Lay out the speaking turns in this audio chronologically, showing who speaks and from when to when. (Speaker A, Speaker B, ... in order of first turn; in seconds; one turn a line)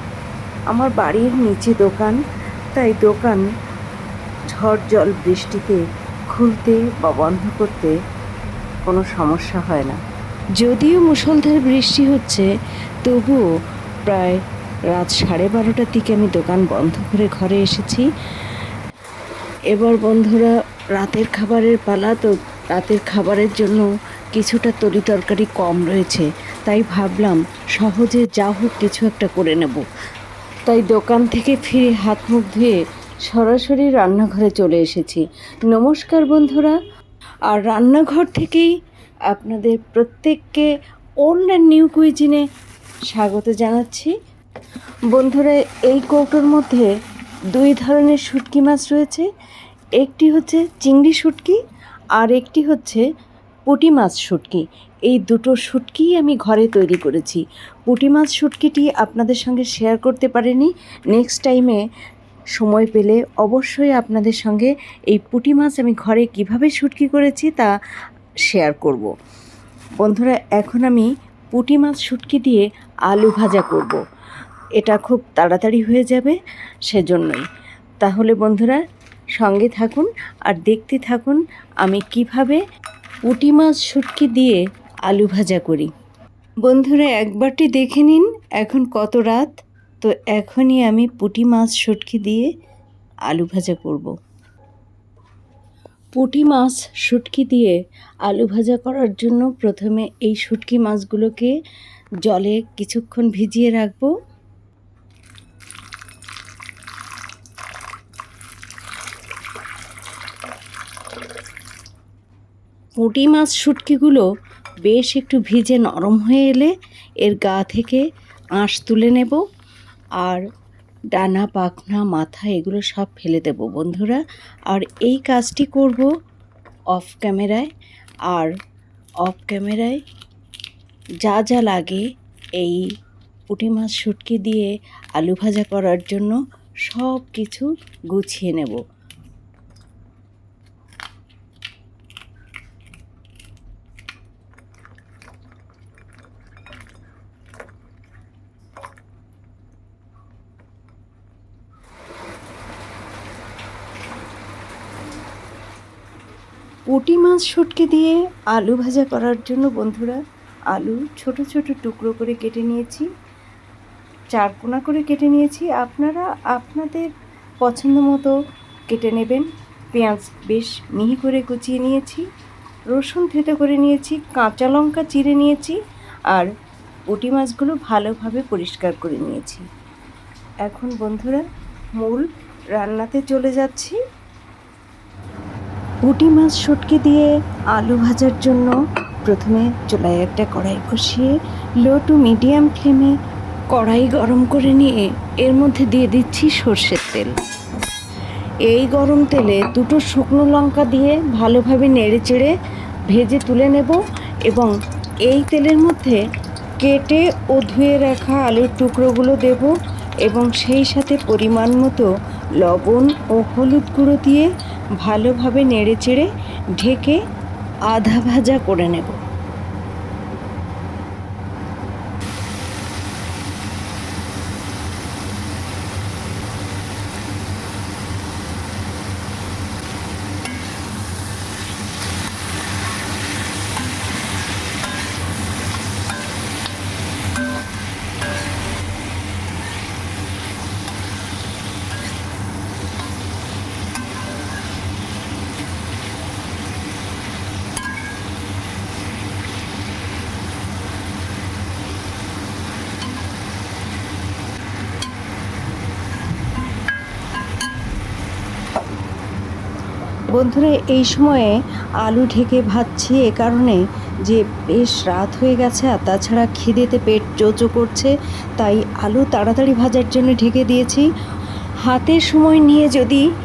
Speaker A: 0.7-2.2
Speaker A: 2.7-3.5
Speaker A: 4.5-7.9
Speaker A: 8.8-10.0
Speaker A: 10.6-12.5
Speaker A: 13.0-13.4
Speaker A: 14.1-18.1
Speaker A: 19.7-29.9
Speaker A: 30.6-36.8
Speaker A: 37.5-38.7
Speaker A: 39.3-40.7
Speaker A: 41.2-42.4
Speaker A: 43.1-44.1
Speaker A: 45.1-46.9
Speaker A: 47.5-49.3
Speaker A: 50.0-51.6
Speaker A: 52.1-53.0
Speaker A: 53.6-61.8
Speaker A: 62.5-67.7
Speaker A: 68.5-69.1
Speaker A: 70.0-74.0
Speaker A: 74.8-77.5
Speaker A: 78.0-78.8
Speaker A: 79.4-82.6
Speaker A: 83.3-85.9
Speaker A: 86.6-92.5
Speaker A: 93.3-94.1
Speaker A: 96.1-101.5
Speaker A: 102.2-104.1
Speaker A: 113.0-114.2
Speaker A: 114.8-118.0
Speaker A: 118.5-119.4
Speaker A: 121.1-126.1
Speaker A: 126.9-127.7
Speaker A: 129.2-130.0
Speaker A: 131.2-132.1
Speaker A: 132.6-132.9
Speaker A: 133.5-138.8
Speaker A: 156.9-160.2
Speaker A: 160.7-163.1
Speaker A: 164.3-167.1
Speaker A: 167.6-168.3
Speaker A: 168.9-172.3
Speaker A: 172.9-175.8
Speaker A: 177.1-179.7
Speaker A: 180.6-181.4
Speaker A: 182.0-184.0
Speaker A: 186.0-188.7
Speaker A: 189.2-193.1
Speaker A: 193.7-197.3
Speaker A: 198.7-202.5
Speaker A: 203.1-204.7
Speaker A: 205.2-206.2
Speaker A: 206.8-209.7
Speaker A: 210.2-214.5
Speaker A: 215.0-217.2
Speaker A: 217.9-219.2
Speaker A: 260.3-271.1
Speaker A: 271.8-273.3